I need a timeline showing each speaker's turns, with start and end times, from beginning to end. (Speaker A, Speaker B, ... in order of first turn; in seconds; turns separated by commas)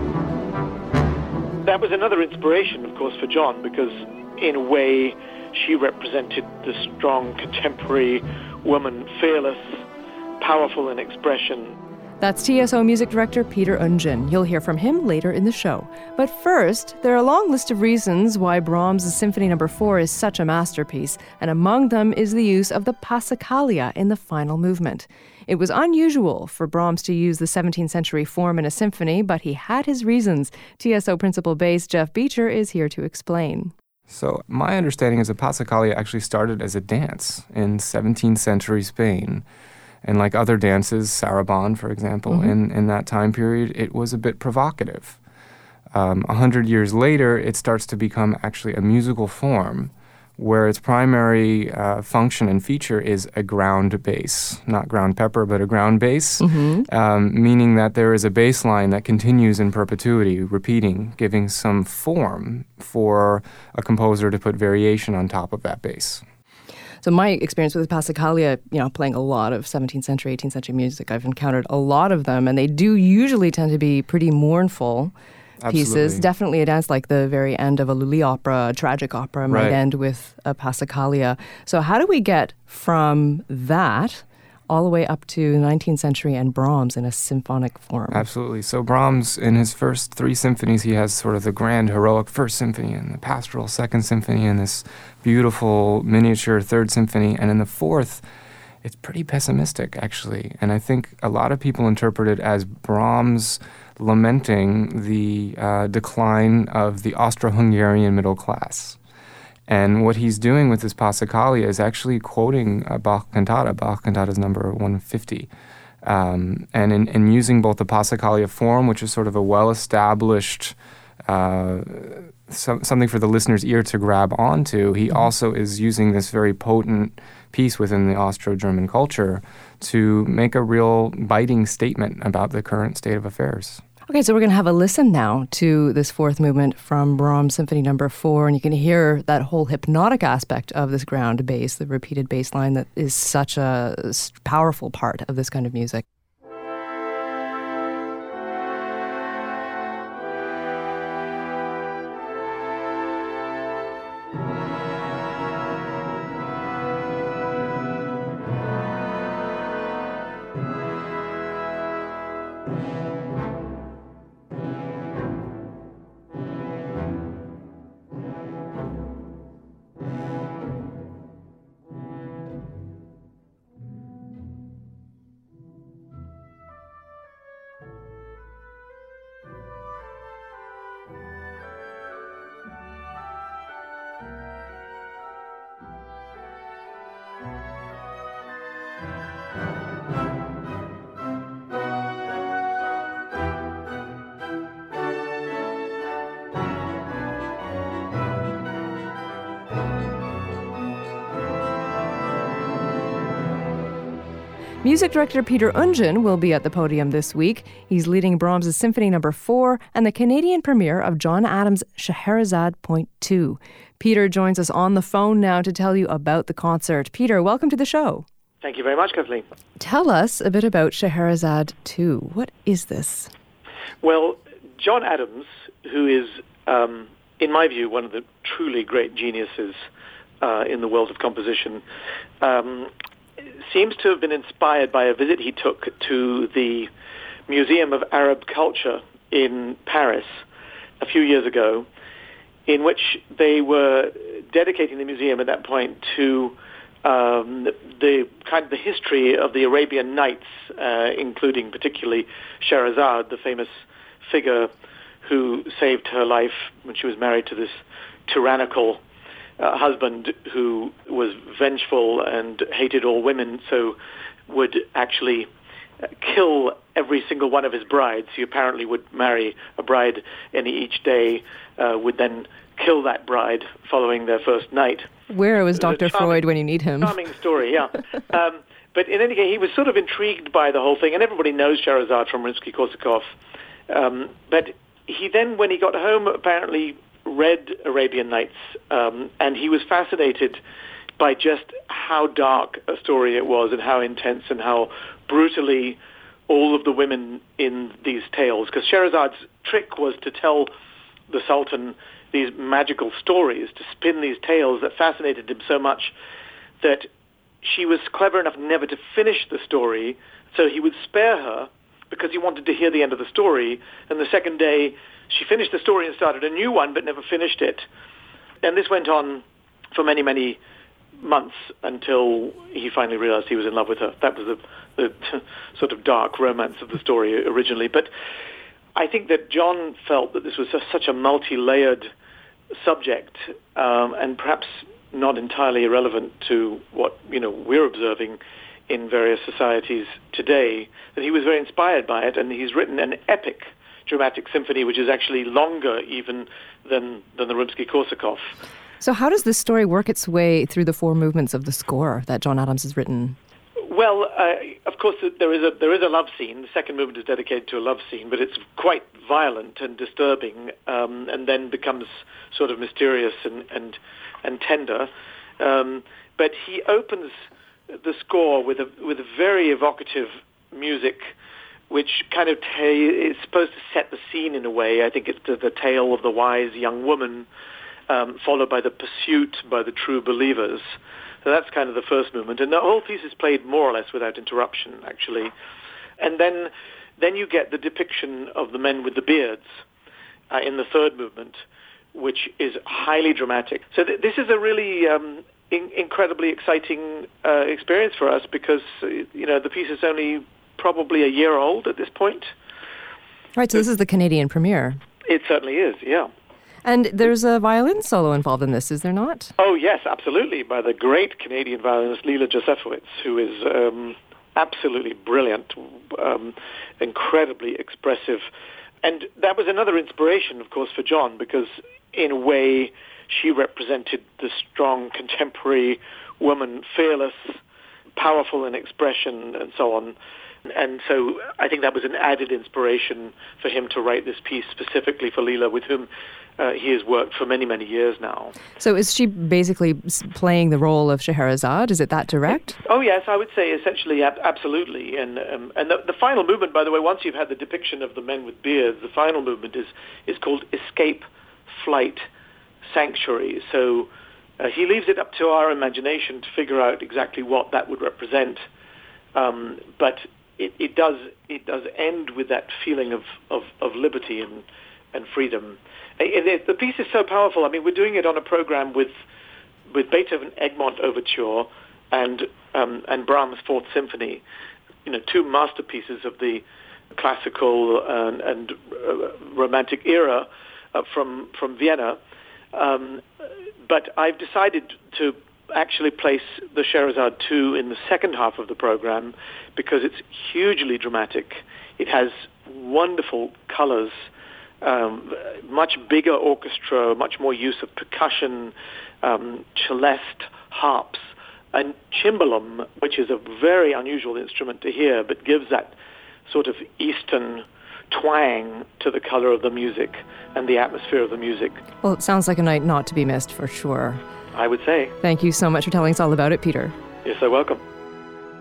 Speaker A: 1.6-9.8, Speaker A: 10.4-11.8, Speaker B: 12.2-33.7, Speaker C: 34.1-39.5, Speaker C: 40.0-45.2, Speaker C: 45.9-66.2, Speaker B: 56.4-56.9, Speaker B: 67.0-75.1, Speaker C: 75.6-76.3, Speaker B: 75.7-88.2, Speaker C: 79.5-79.8, Speaker C: 88.1-98.2, Speaker C: 98.8-109.0, Speaker C: 109.7-115.5, Speaker C: 116.0-133.8, Speaker B: 134.1-146.0, Speaker B: 204.8-218.2, Speaker A: 218.6-219.4, Speaker B: 219.8-223.3, Speaker A: 224.0-229.8, Speaker A: 230.4-231.8, Speaker A: 232.4-232.9, Speaker A: 233.7-236.9, Speaker A: 237.5-240.3, Speaker A: 241.0-241.9, Speaker A: 242.7-253.7, Speaker A: 254.2-254.7, Speaker A: 255.2-259.0, Speaker A: 259.6-265.5, Speaker A: 266.2-275.1, Speaker B: 275.3-277.2, Speaker A: 275.8-276.4, Speaker A: 277.0-283.3, Speaker A: 283.9-290.6, Speaker A: 291.2-300.7, Speaker A: 301.3-306.1, Speaker A: 306.8-307.1, Speaker A: 307.6-317.9, Speaker A: 318.6-320.6, Speaker A: 321.2-328.1, Speaker A: 329.0-332.1, Speaker A: 332.8-348.5, Speaker B: 349.0-353.4, Speaker A: 353.9-367.3, Speaker A: 368.0-371.3, Speaker A: 371.9-377.5, Speaker A: 378.1-385.5, Speaker A: 386.2-389.7, Speaker A: 390.5-391.6, Speaker A: 392.1-402.5, Speaker B: 403.6-405.0, Speaker A: 405.3-406.3, Speaker B: 406.9-409.5, Speaker A: 409.6-418.5, Speaker A: 419.0-427.5, Speaker A: 428.2-430.2, Speaker A: 430.7-438.6, Speaker B: 438.8-442.8, Speaker A: 442.8-452.2, Speaker A: 452.9-458.6, Speaker A: 459.4-469.1, Speaker A: 469.9-474.4, Speaker A: 475.1-482.2, Speaker A: 482.7-483.2, Speaker A: 483.9-494.1, Speaker A: 494.8-505.9, Speaker A: 506.5-511.8, Speaker B: 512.0-514.2, Speaker A: 514.5-515.2, Speaker B: 515.2-517.0, Speaker A: 517.2-517.8